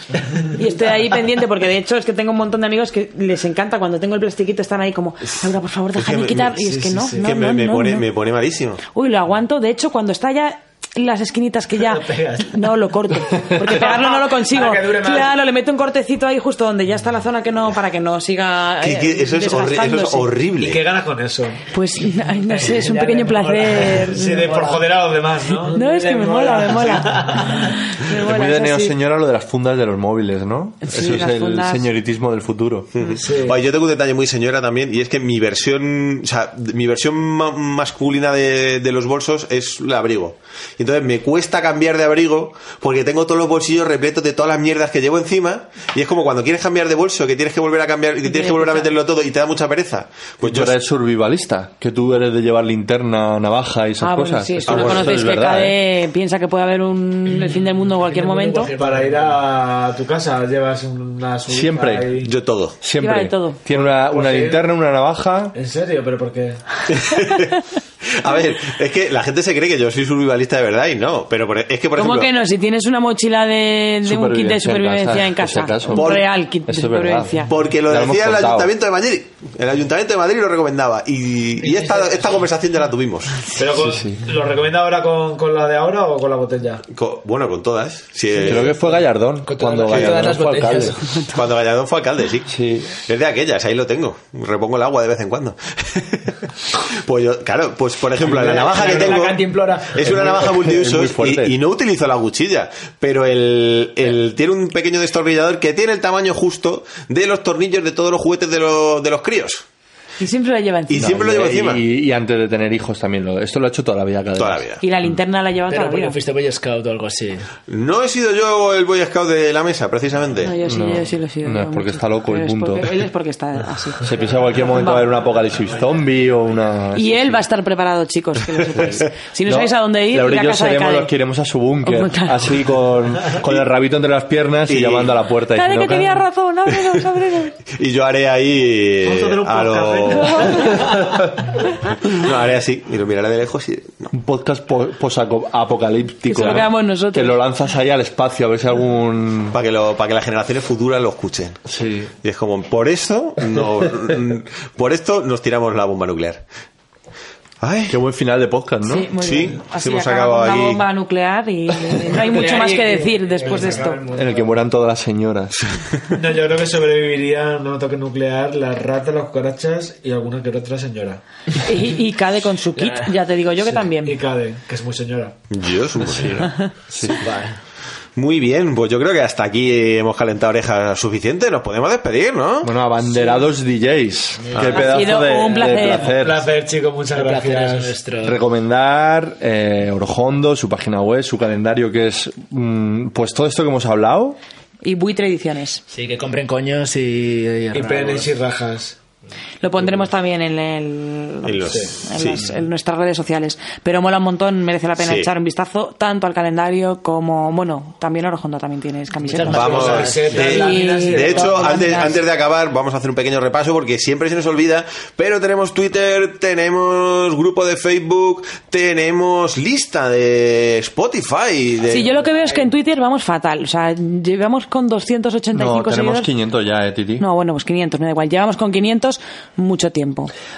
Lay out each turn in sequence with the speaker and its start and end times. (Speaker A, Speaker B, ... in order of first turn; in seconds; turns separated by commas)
Speaker A: 0.4-8.1, Speaker B: 5.9-6.6, Speaker C: 6.7-7.2, Speaker B: 7.1-8.8, Speaker A: 8.9-20.3, Speaker C: 11.8-12.6, Speaker D: 13.6-15.4, Speaker B: 18.8-20.8, Speaker C: 20.6-21.6, Speaker A: 21.7-24.3, Speaker D: 22.4-24.9, Speaker C: 24.1-27.6, Speaker A: 25.7-28.9, Speaker E: 28.1-32.9, Speaker A: 30.8-31.9, Speaker B: 32.9-50.8, Speaker C: 33.2-33.6, Speaker A: 48.2-48.9, Speaker E: 50.4-55.8, Speaker A: 54.0-58.7, Speaker B: 54.7-55.2, Speaker D: 57.2-59.4, Speaker C: 58.7-62.3, Speaker E: 61.5-62.1, Speaker B: 62.2-62.8, Speaker E: 62.8-65.5, Speaker A: 63.0-63.6, Speaker C: 63.7-64.6, Speaker C: 65.5-66.8, Speaker B: 66.9-72.3, Speaker A: 72.0-77.5, Speaker E: 74.0-78.7, Speaker B: 75.9-76.2, Speaker B: 77.5-83.4, Speaker D: 81.6-82.4, Speaker C: 83.5-86.8, Speaker E: 83.7-84.2, Speaker B: 86.9-88.7, Speaker E: 88.4-91.0, Speaker D: 89.4-91.2, Speaker B: 89.9-90.3, Speaker B: 91.3-96.3, Speaker E: 92.5-92.9, Speaker B: 96.9-109.6, Speaker D: 98.2-100.5, Speaker E: 100.0-101.6, Speaker A: 110.2-111.2, Speaker B: 110.9-111.8, Speaker E: 111.0-114.6, Speaker B: 114.3-114.8, Speaker A: 114.8-116.2, Speaker D: 115.7-117.5, Speaker B: 117.7-120.5, Speaker A: 120.4-125.1, Speaker E: 120.7-122.9, Speaker E: 124.0-127.4, Speaker A: 126.9-131.1, Speaker E: 128.7-136.2, Speaker A: 131.8-132.4, Speaker B: 134.7-135.1, Speaker A: 135.5-137.6, Speaker B: 137.7-141.0, Speaker C: 139.0-140.7, Speaker A: 140.2-140.8, Speaker B: 142.0-144.1, Speaker E: 144.1-149.6, Speaker A: 146.3-147.4, Speaker B: 149.5-151.6, Speaker E: 151.7-152.1, Speaker B: 152.2-156.4, Speaker B: 157.6-157.9, Speaker E: 157.9-159.1, Speaker A: 158.8-164.0, Speaker B: 159.2-160.8, Speaker D: 162.1-164.5, Speaker C: 163.4-164.3, Speaker E: 164.1-165.6, Speaker C: 166.1-171.2, Speaker A: 171.6-174.2, Speaker D: 172.7-173.1, Speaker C: 174.0-175.3, Speaker B: 175.5-176.5, Speaker E: 176.1-177.2, Speaker D: 177.0-177.6, Speaker B: 178.2-182.7, Speaker E: 182.6-186.4, Speaker D: 184.4-185.5, Speaker B: 184.5-184.8, Speaker A: 184.7-186.1, Speaker C: 186.0-188.0, Speaker D: 187.1-188.4, Speaker E: 188.2-194.4, Speaker A: 194.8-195.8, Speaker D: 195.9-198.3, Speaker C: 197.7-199.0, Speaker A: 199.6-212.2, Speaker B: 201.4-202.4, Speaker B: 205.0-205.3, Speaker D: 209.2-211.8, Speaker B: 209.5-210.5, Speaker C: 209.7-211.8, Speaker B: 211.0-222.1, Speaker A: 221.9-226.3, Speaker D: 221.9-222.7, Speaker E: 225.5-227.2, Speaker A: 227.2-230.3